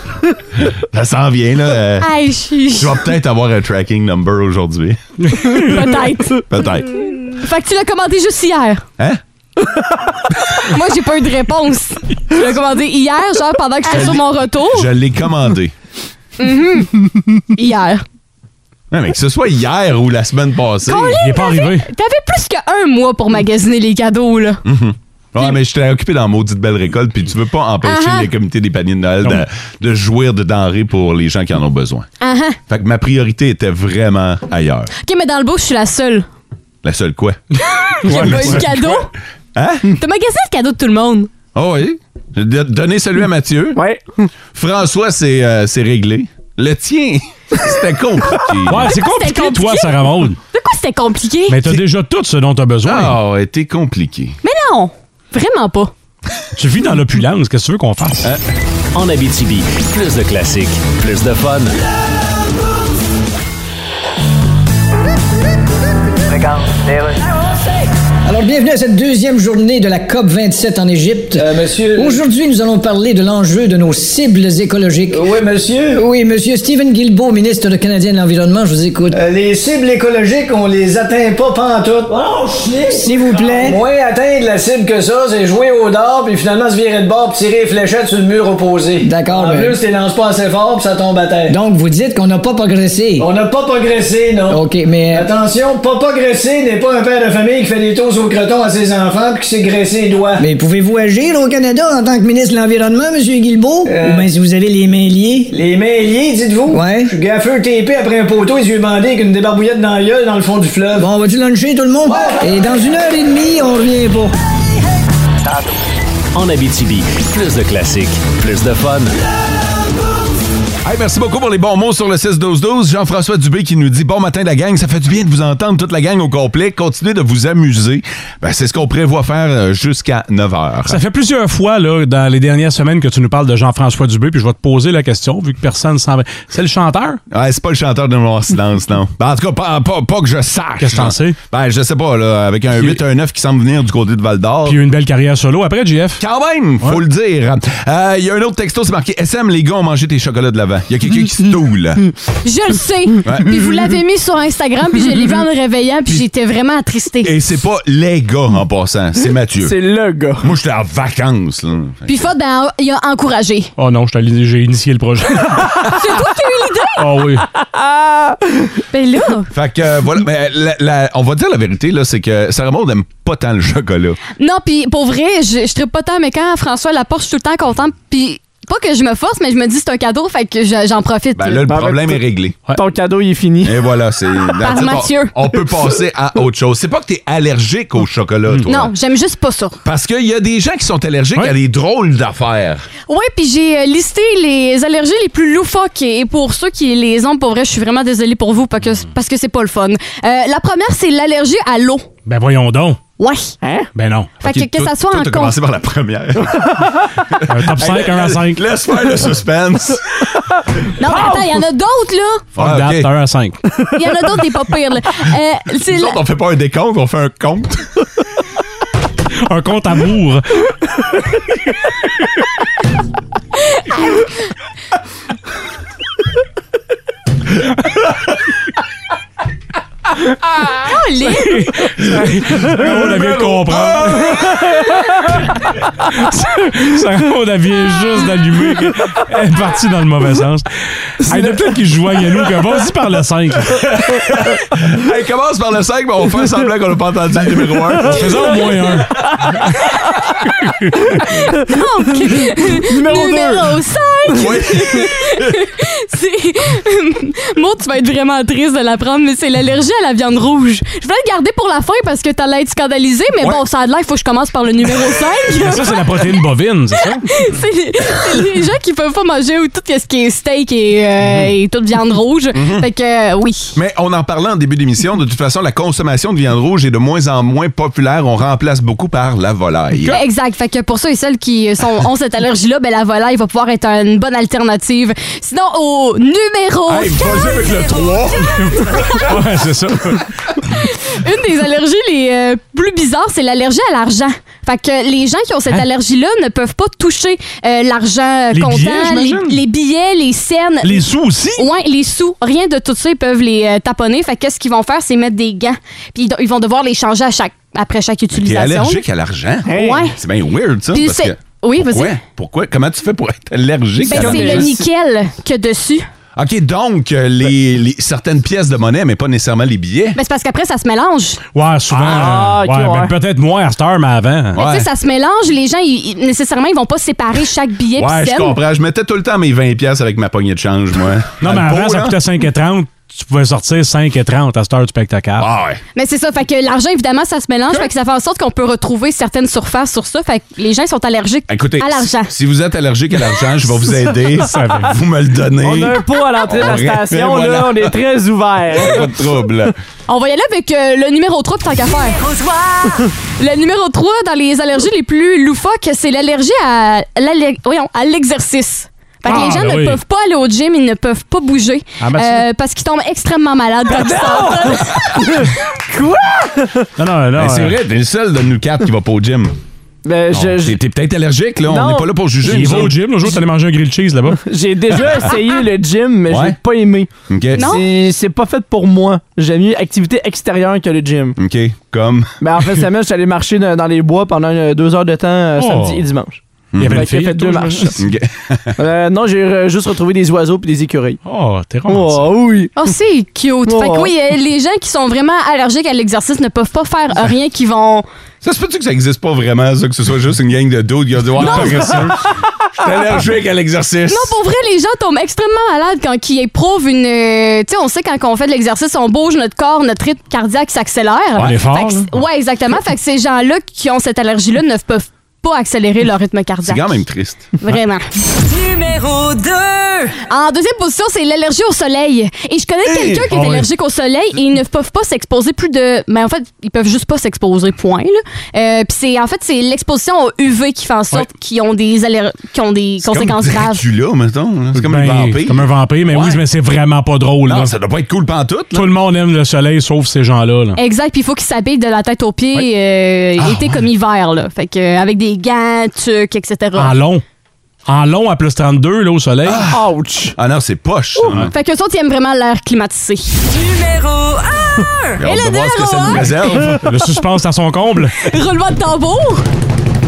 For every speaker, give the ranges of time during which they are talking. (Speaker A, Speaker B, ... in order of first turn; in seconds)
Speaker A: 0.9-2.1, 2.7-5.0, 6.5-6.9, 13.9-15.7, 18.9-21.2, 24.6-32.1, 32.7-34.9, 36.8-37.4, 38.1-38.7, 39.5-39.9, 41.5-43.8, 44.5-49.0, 52.8-54.4, 120.8-131.0, 137.3-144.8, 146.2-152.1, 153.2-153.5, 157.2-159.7, 160.4-162.3, 169.5-174.2, 181.3-182.6, 183.6-188.9, 189.8-192.8, 204.4-210.2, 212.6-213.1, 215.9-218.0, 232.9-234.4, 243.9-248.5, 254.3-255.5, 272.5-272.9, 273.7-280.2, 286.9-289.4, 308.3-314.7, 316.4-320.2, 324.5-324.9, 327.9-332.2, 335.4-335.8, 341.5-347.9, 348.7-349.7, 367.4-369.5, 370.3-373.1, 376.3-376.6, 377.3-377.8, 381.4-382.3, 386.7-387.1, 388.0-388.7, 398.4-404.4, 416.6-417.5, 422.9-423.3, 433.0-436.4, 437.4-438.9, 443.4-443.9, 449.4-449.8, 450.4-451.5, 455.2-456.9
Speaker B: 2.0-3.0, 5.4-8.8, 10.6-14.9, 16.4-18.0, 20.8-24.6, 27.8-28.3, 32.2-32.6, 35.0-36.3, 37.6-39.1, 39.9-41.3, 48.9-51.5, 54.4-55.9, 152.4-157.3, 162.1-163.7, 165.9-167.1, 168.9-169.5, 174.3-181.7, 184.6-185.3, 188.7-189.8, 193.1-202.1, 203.2-203.6, 204.4-205.6, 211.0-212.4, 213.9-216.2, 223.6-224.3, 230.8-231.7, 251.3-266.3, 267.3-273.7, 280.0-287.8, 288.9-289.3, 290.7-309.0, 309.7-310.1, 310.9-312.1, 314.0-316.1, 320.1-321.4, 324.5-328.6, 335.9-342.3, 350.1-352.2, 353.4-365.0, 377.6-377.8, 392.8-398.1, 404.1-417.0, 417.6-418.1, 420.3-433.8, 440.8-446.9, 451.2-453.4, 455.2-456.4, 458.2-459.4
Speaker C: 21.1-21.9, 38.0-39.0, 48.7-50.4, 51.5-53.2, 56.5-58.3, 130.9-137.2, 140.8-141.4, 144.7-146.2, 163.8-165.9, 167.0-167.4, 202.2-203.0, 203.9-204.3, 207.5-208.6, 212.6-213.6, 219.4-220.6, 231.4-234.5, 236.1-240.7, 241.2-243.8, 248.1-249.1, 265.5-267.2, 288.6-290.2, 298.5-299.6, 300.8-301.6, 321.5-324.6, 331.4-335.5, 344.4-344.9, 359.2-360.0, 362.0-362.4, 367.0-367.8, 372.4-374.4, 385.6-386.0, 386.8-388.0, 391.2-392.3, 401.4-402.2, 411.4-412.0, 423.3-423.6, 434.7-437.7, 438.7-440.8, 446.8-447.2, 447.9-449.6, 456.8-458.2
Speaker D: 43.7-44.3, 159.6-160.5, 167.8-168.4, 181.7-182.2, 182.7-183.8, 203.6-203.9, 252.8-253.8, 309.7-310.1, 314.0-314.8, 321.9-323.1, 345.6-349.3, 363.9-366.9, 370.0-370.8, 371.6-372.1, 374.4-381.4, 382.4-387.9, 388.8-391.2, 391.9-392.7, 393.6-394.1, 449.7-450.3
Speaker E: 58.9-61.8, 116.3-119.1
Speaker F: 68.2-75.3, 75.9-79.2, 82.8-83.8, 89.0-89.8, 91.5-93.3, 94.5-95.3, 100.4-105.5, 106.7-107.1, 111.0-114.3
Speaker G: 71.3-72.2, 75.1-76.0, 79.1-91.5, 93.2-100.4, 103.8-104.3, 105.5-111.1, 112.1-112.4
Speaker H: 352.3-352.6, 418.4-420.1, 453.5-455.2